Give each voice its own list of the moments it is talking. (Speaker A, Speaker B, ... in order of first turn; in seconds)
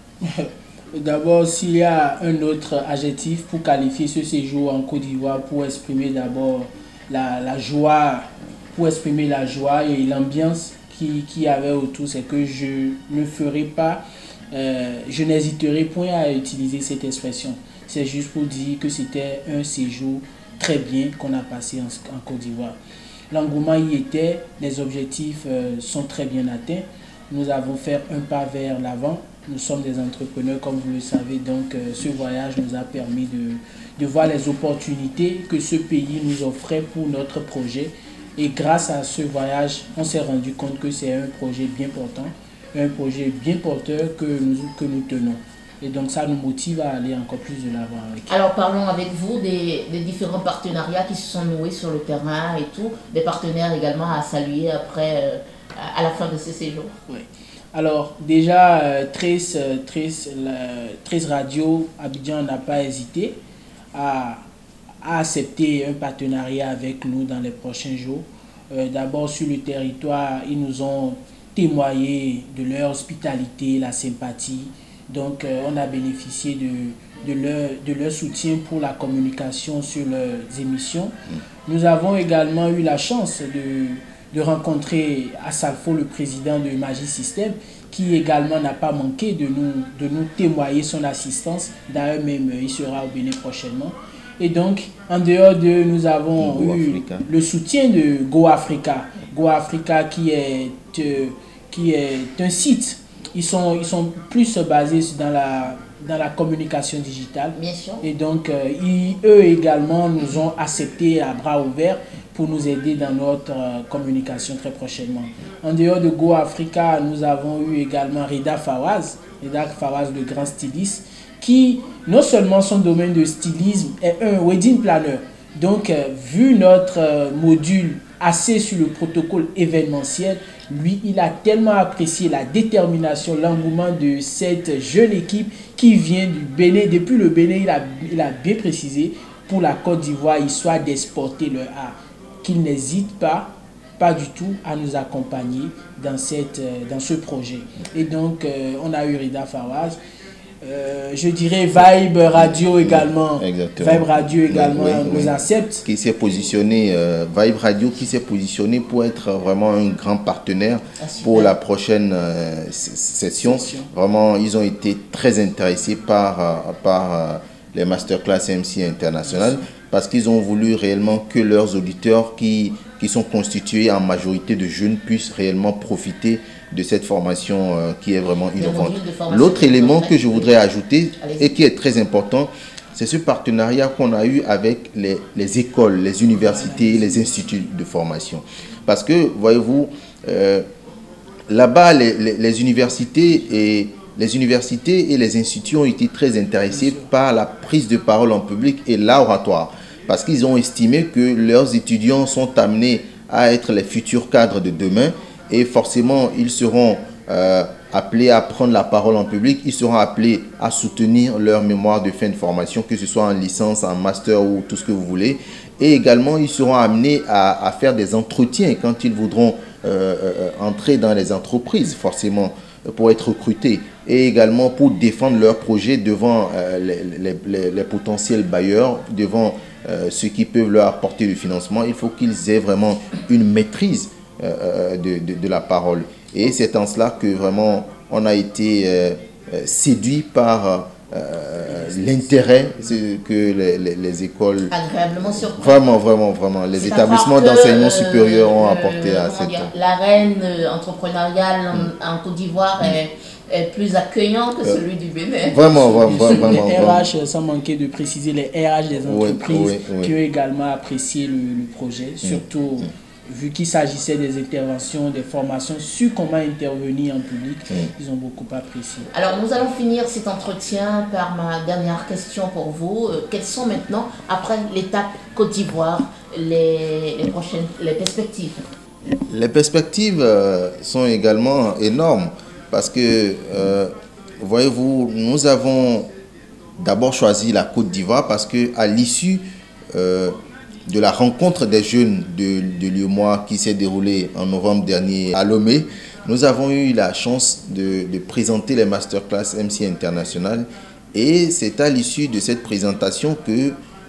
Speaker A: 0.2-22.8, 23.3-48.3, 57.1-63.4, 63.9-64.4, 65.0-81.1, 81.7-150.0, 150.6-155.8, 163.4-163.9, 169.2-169.6, 186.3-187.7, 196.7-197.1, 241.7-242.4, 255.7-269.1
Speaker B: 48.3-57.0, 107.5-108.1, 161.0-161.5, 178.6-180.6, 181.2-181.6, 244.7-245.8, 246.7-256.6, 269.1-278.6
Speaker C: 96.4-97.3, 152.3-190.6, 191.5-244.7, 245.3-249.7, 255.5-257.1, 259.0-260.1, 279.3-286.1, 286.8-290.4, 290.9-303.8